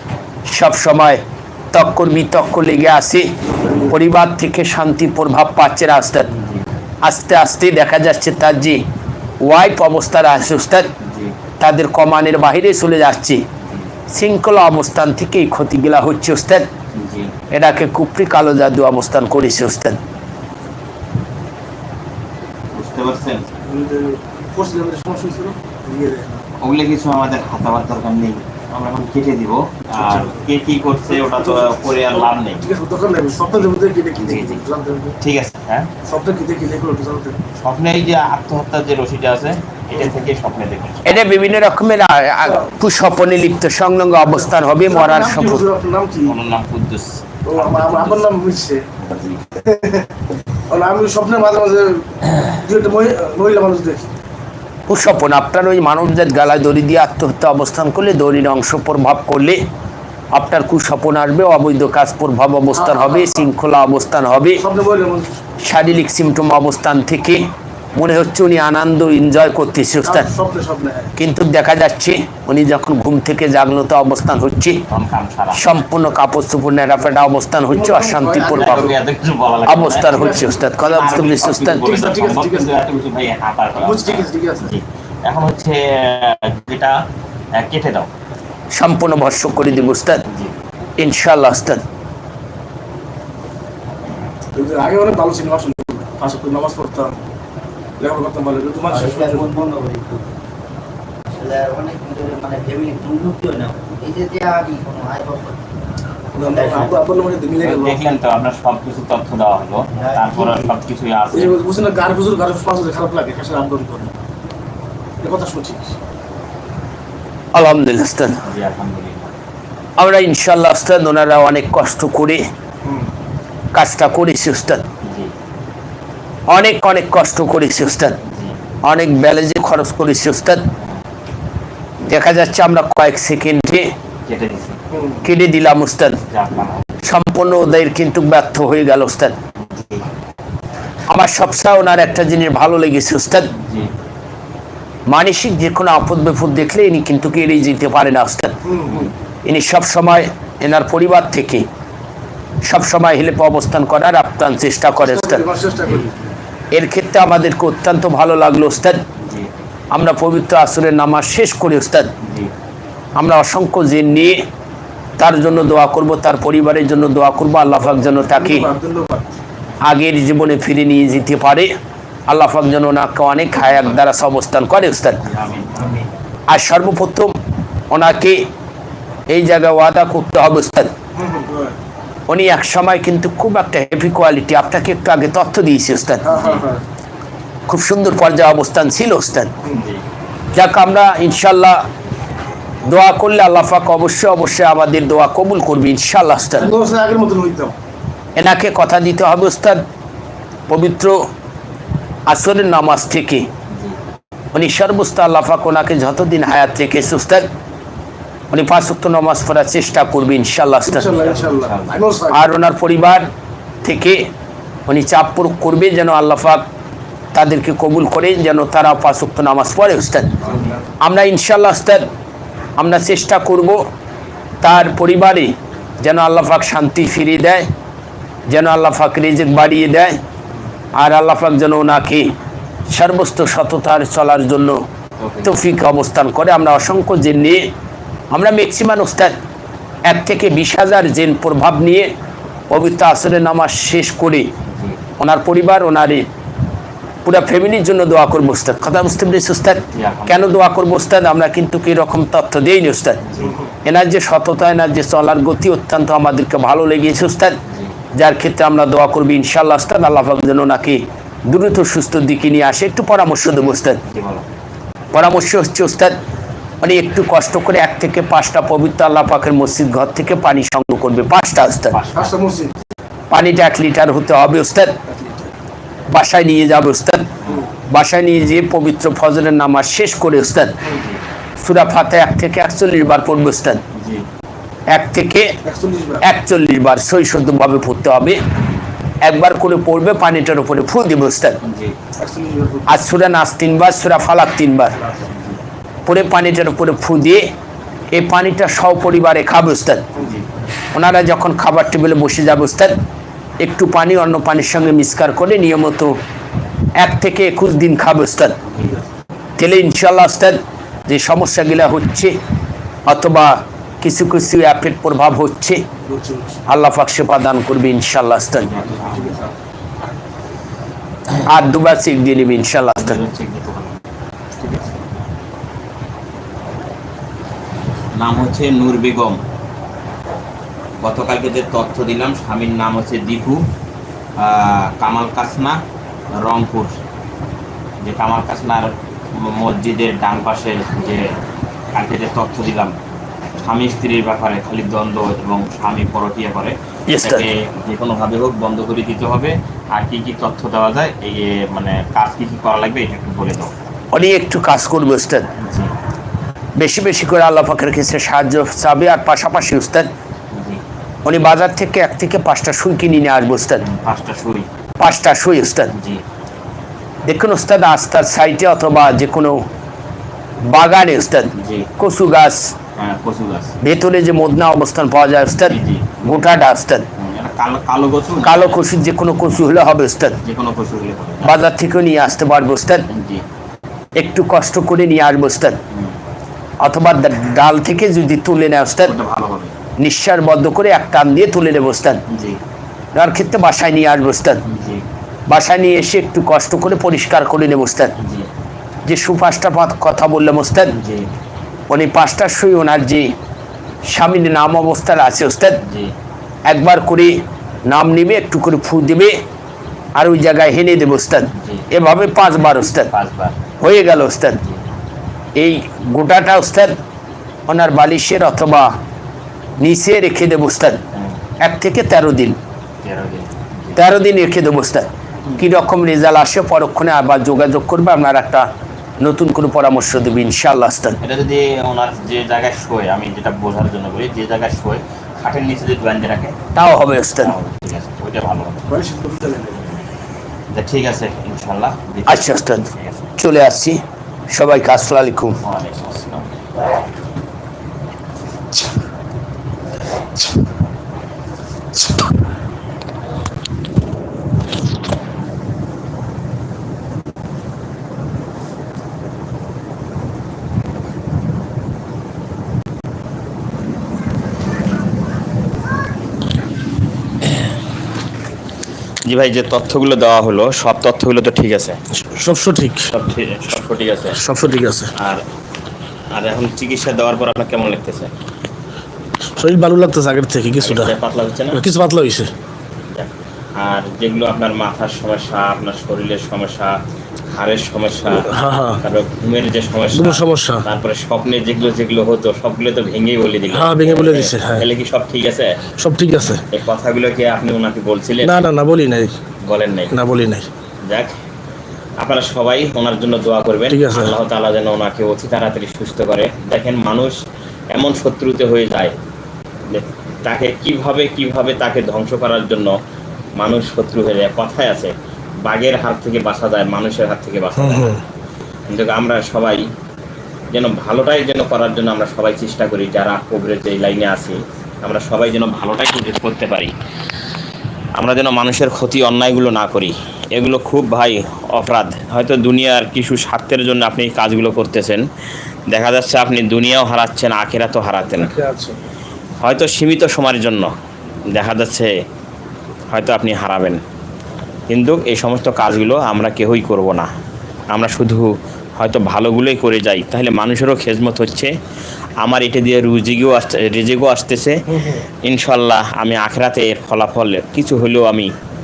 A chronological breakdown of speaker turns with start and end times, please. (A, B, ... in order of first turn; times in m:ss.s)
0:00.5-0:06.3 A
0:03.5-0:03.9 B
0:06.3-0:06.6 C
0:07.0-0:08.8 A
0:09.4-0:10.9 A
0:11.0-0:11.3 C
0:11.6-0:13.4 A
0:13.6-0:13.9 C
0:14.1-0:16.7 A
0:16.9-0:17.3 C
0:17.5-0:20.0 A
0:22.7-0:23.4 C
0:23.6-0:26.4 B
0:26.6-0:32.7 C
0:29.9-0:30.4 B
0:31.0-0:35.2 B
0:34.2-0:34.6 C
0:35.2-0:35.9 C
0:36.0-0:37.4 B
0:37.6-0:41.4 C
0:41.0-0:45.6 A
0:44.4-0:46.4 B
0:46.2-0:48.3 C
0:47.4-0:48.9 B
0:49.0-0:49.4 C
0:49.6-0:50.1 B
0:50.7-0:54.1 B
0:54.9-0:59.6 A
1:00.3-1:04.6 A
1:02.7-1:03.5 B
1:04.6-1:05.4 B
1:05.6-1:10.3 A
1:10.0-1:11.1 B
1:11.2-1:14.8 A
1:14.9-1:15.6 C
1:15.5-1:18.9 A
1:17.7-1:18.9 B
1:18.5-1:27.0 C
1:19.7-1:21.8 A
1:20.1-1:20.4 B
1:21.8-1:22.7 B
1:23.8-1:24.7 B
1:27.5-1:28.1 C
1:28.7-1:30.2 A
1:30.3-1:30.5 C
1:31.0-1:31.8 A
1:34.5-1:37.2 B
1:38.0-1:39.5 B
1:38.9-1:40.3 D
1:41.3-1:45.6 D
1:46.3-1:48.0 B
1:46.5-1:47.0 D
1:47.6-1:51.6 C
1:49.9-1:50.7 D
1:51.3-1:54.1 B
1:55.2-1:55.9 B
1:57.5-1:58.4 A
1:58.4-1:59.3 C
2:00.0-2:02.4 A
2:02.8-2:03.1 B
2:03.7-2:04.9 A
2:05.0-2:05.3 C
2:06.5-2:08.2 A
2:08.2-2:08.6 C
2:08.8-2:10.7 A
2:12.0-2:13.9 A
2:14.3-2:14.8 C
2:14.9-2:15.2 B
2:15.2-2:16.2 A
2:16.3-2:17.0 C
2:17.0-2:19.4 A
2:19.6-2:20.1 C
2:21.1-2:23.5 A
2:23.6-2:23.9 C
2:25.1-2:28.6 A
2:28.6-2:29.1 B
2:29.4-2:31.6 A
2:32.6-2:35.4 A
2:35.0-2:36.1 B
2:36.7-2:39.0 A
2:39.2-2:39.5 C
2:39.9-2:42.1 A
2:42.2-2:42.5 C
2:43.2-2:44.4 A
2:45.2-2:48.7 A
2:48.2-2:49.4 B
2:49.8-2:51.7 A
2:52.3-2:55.2 A
2:53.7-2:54.0 C
2:55.2-2:56.0 C
2:56.5-2:57.4 A
2:57.9-2:58.5 A
2:59.3-3:00.9 A
3:01.2-3:01.8 B
3:02.3-3:06.6 A
3:06.2-3:06.8 B
3:07.7-3:09.5 A
3:09.7-3:10.0 C
3:10.5-3:11.8 A
3:12.9-3:16.7 A
3:16.6-3:17.7 B
3:18.4-3:19.8 A
3:20.7-3:21.2 A
3:22.3-3:23.5 A
3:23.7-3:24.0 C
3:24.5-3:27.5 A
3:28.5-3:31.1 A
3:30.8-3:32.5 B
3:31.1-3:31.9 C
3:32.3-3:33.3 A
3:33.8-3:34.3 A
3:34.9-3:36.7 A
3:37.3-3:40.3 A
3:40.4-3:40.7 C
3:40.4-3:40.8 B
3:41.0-3:42.1 A
3:42.8-3:43.8 A
3:44.6-3:47.7 A
3:48.5-3:50.2 A
3:50.9-3:52.3 A
3:52.9-3:54.8 A
3:55.2-3:55.6 C
3:55.4-3:57.7 A
3:58.3-3:59.4 A
4:00.0-4:02.1 A
4:02.7-4:04.5 A
4:04.7-4:05.0 C
4:05.2-4:06.3 A
4:07.2-4:13.2 A
4:09.9-4:10.5 C
4:13.2-4:13.6 C
4:13.8-4:17.6 A
4:17.7-4:17.9 C
4:18.1-4:24.0 A
4:24.0-4:24.4 C
4:25.1-4:26.2 A
4:26.8-4:32.0 A
4:31.9-4:32.4 C
4:32.1-4:32.7 B
4:33.3-4:35.0 A
4:35.1-4:35.5 B
4:36.1-4:37.3 A
4:37.9-4:40.8 A
4:40.9-4:41.2 C
4:41.6-4:43.8 A
4:43.9-4:44.2 C
4:44.9-4:45.6 A
4:45.6-4:46.3 B
4:46.2-4:48.4 A
4:49.2-4:51.6 A
4:51.6-4:51.9 C
4:52.2-4:53.0 B
4:52.9-4:55.0 A
4:55.2-4:55.6 C
4:56.0-4:57.5 A
4:58.1-5:00.1 A
5:00.2-5:00.5 C
5:00.9-5:03.0 A
5:03.6-5:06.2 A
5:07.0-5:08.6 A
5:09.6-5:12.4 A
5:13.1-5:15.8 A
5:16.0-5:16.6 B
5:16.7-5:18.7 A
5:18.6-5:19.4 C
5:18.8-5:19.5 B
5:21.4-5:23.2 A
5:23.0-5:24.0 C
5:24.6-5:24.9 B
5:28.1-5:29.4 C
5:31.0-5:33.7 C
5:34.4-5:35.8 C
5:36.3-5:37.0 C
5:38.0-5:41.4 C
5:41.9-5:42.9 C
5:43.6-5:53.7 C
5:47.1-5:47.4 A
5:54.1-5:55.5 A
5:55.6-5:55.9 C
5:56.8-6:00.1 A
6:00.5-6:00.8 C
6:01.2-6:03.8 A
6:03.8-6:04.7 C
6:05.0-6:05.9 A
6:05.9-6:06.2 C
6:07.2-6:09.6 A
6:10.6-6:12.7 A
6:11.6-6:11.9 C
6:13.0-6:13.8 C
6:13.8-6:17.0 A
6:15.6-6:16.4 C
6:17.2-6:18.8 C
6:18.4-6:20.4 A
6:20.4-6:21.5 C
6:21.4-6:23.0 A
6:23.1-6:23.4 C
6:24.2-6:25.8 A
6:25.9-6:26.2 C
6:26.8-6:29.1 A
6:29.0-6:29.7 C
6:30.0-6:32.2 A
6:32.3-6:32.6 C
6:33.1-6:34.6 A
6:34.6-6:35.0 C
6:35.5-6:38.2 A
6:38.2-6:38.5 C
6:39.0-6:41.0 A
6:40.9-6:41.3 C
6:41.9-6:43.3 A
6:44.0-6:45.8 A
6:45.8-6:46.1 C
6:46.6-6:49.4 A
6:50.2-6:53.1 A
6:51.6-6:51.8 C
6:53.0-6:53.6 C
6:53.8-6:54.6 A
6:55.6-6:57.0 A
6:57.7-6:59.0 A
6:59.8-7:01.0 A
7:01.6-7:02.6 A
7:03.0-7:04.0 C
7:04.0-7:08.7 A
7:09.2-7:11.2 A
7:11.2-7:16.5 C
7:16.7-7:17.5 A
7:17.4-7:19.0 C
7:18.9-7:19.8 B
7:20.7-7:23.2 C
7:22.3-7:24.0 A
7:24.5-7:25.6 A
7:25.6-7:26.5 C
7:49.2-7:52.0 C
7:52.1-7:53.1 B
7:53.1-7:54.4 C
7:54.3-7:55.1 B
7:55.2-7:55.4 C
7:56.3-7:58.3 C
7:59.5-8:01.1 B
8:00.8-8:01.8 C
8:01.7-8:02.5 B
8:03.1-8:07.0 C
8:07.5-8:15.8 C
8:08.3-8:09.0 B
8:10.1-8:10.8 B
8:13.7-8:14.9 B
8:16.0-8:16.6 B
8:16.7-8:18.6 C
8:18.4-8:19.4 B
8:19.6-8:20.1 C
8:20.1-8:20.7 B
8:21.0-8:21.3 C
8:22.2-8:27.4 C
8:23.9-8:24.3 B
8:27.9-8:29.1 C
8:29.9-8:32.9 C
8:33.6-8:35.1 C
8:35.6-8:38.2 C
8:37.8-8:38.2 B
8:38.9-8:39.9 C
8:40.7-8:46.9 C
8:48.2-8:55.2 C
8:55.9-8:58.5 C
8:58.2-8:59.0 B
8:59.6-9:00.9 C
9:01.5-9:02.1 C
9:03.1-9:04.0 C
9:04.9-9:07.3 C
9:07.9-9:11.7 C
9:12.4-9:14.8 C
9:14.9-9:15.2 B
9:15.4-9:18.5 C